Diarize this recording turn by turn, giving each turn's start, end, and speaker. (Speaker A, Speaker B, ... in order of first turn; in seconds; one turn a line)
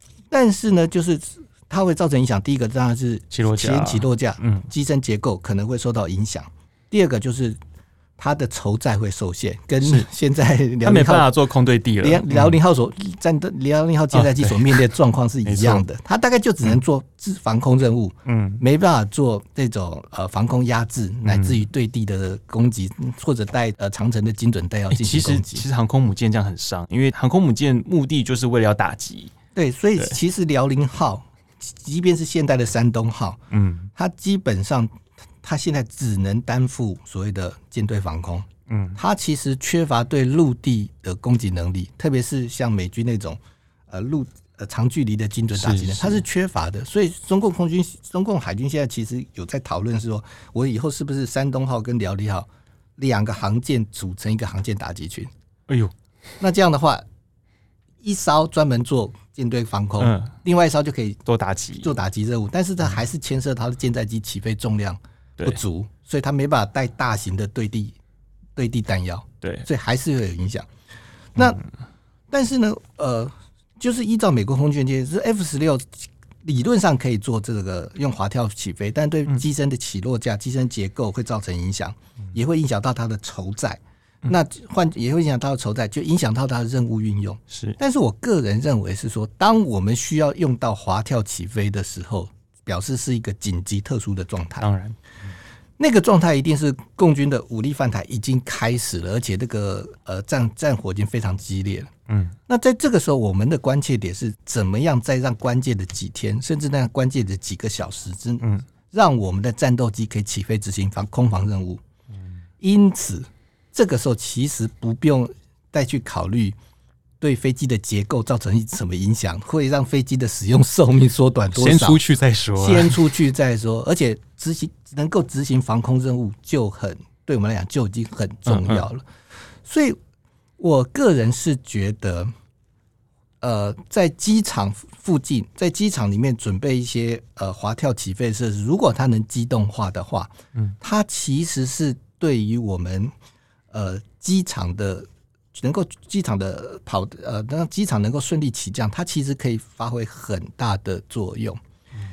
Speaker A: 0.3-7.6
Speaker B: 3.3-4.7
Speaker A: 8.2-11.3
Speaker B: 9.8-10.1
Speaker B: 10.8-12.6
Speaker A: 12.0-25.6
Speaker B: 14.1-14.8
Speaker B: 15.4-15.8
Speaker B: 18.2-18.6
Speaker B: 21.2-21.6
Speaker B: 24.9-29.3
Speaker A: 29.5-33.4
Speaker B: 33.5-33.9
Speaker A: 33.9-43.4
Speaker B: 38.7-39.0
Speaker A: 43.9-55.3
Speaker B: 45.5-46.2
Speaker B: 55.7-55.9
Speaker A: 56.4-57.0
Speaker A: 58.0-61.2
Speaker B: 60.0-60.3
Speaker B: 61.2-61.9
Speaker A: 61.8-68.0
Speaker A: 68.5-70.7
Speaker A: 71.3-71.6
Speaker A: 72.3-94.7
Speaker B: 87.5-87.8
Speaker B: 94.6-95.0
Speaker A: 95.8-101.9
Speaker B: 102.1-102.4
Speaker A: 102.5-111.8
Speaker A: 112.6-116.5
Speaker A: 117.2-122.0
Speaker B: 121.5-123.0
Speaker A: 122.6-129.0
Speaker B: 128.5-128.8
Speaker A: 129.6-130.0
Speaker A: 130.6-132.3
Speaker A: 133.4-143.1
Speaker A: 143.7-151.6